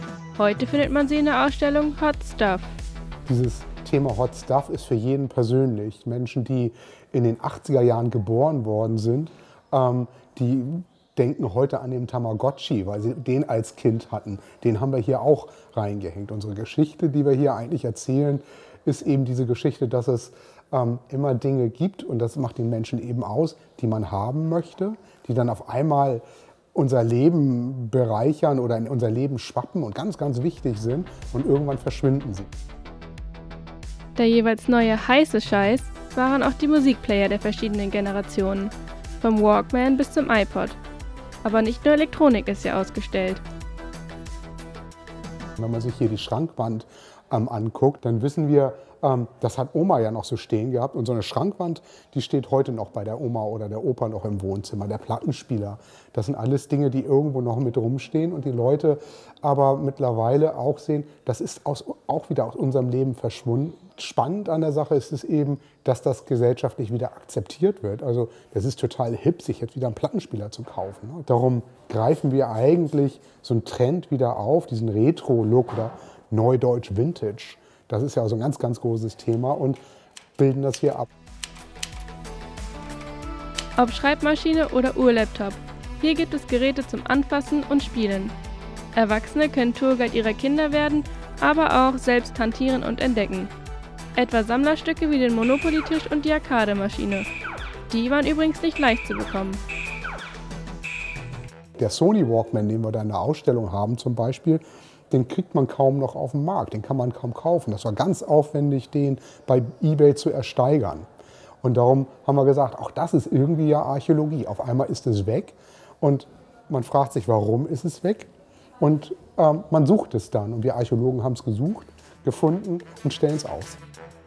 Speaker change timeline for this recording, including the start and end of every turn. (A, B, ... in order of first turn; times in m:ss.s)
0:00.4-0:02.7 A
0:03.2-0:32.5 B
0:34.2-0:40.8 A
0:41.4-0:43.4 A
0:45.6-1:19.8 B
1:20.4-1:21.1 B
1:23.8-1:28.3 A
1:28.9-1:33.5 A
1:34.2-1:37.3 A
1:37.9-1:39.6 A
1:41.8-1:51.1 B
1:51.6-1:58.3 B
1:58.8-2:03.8 B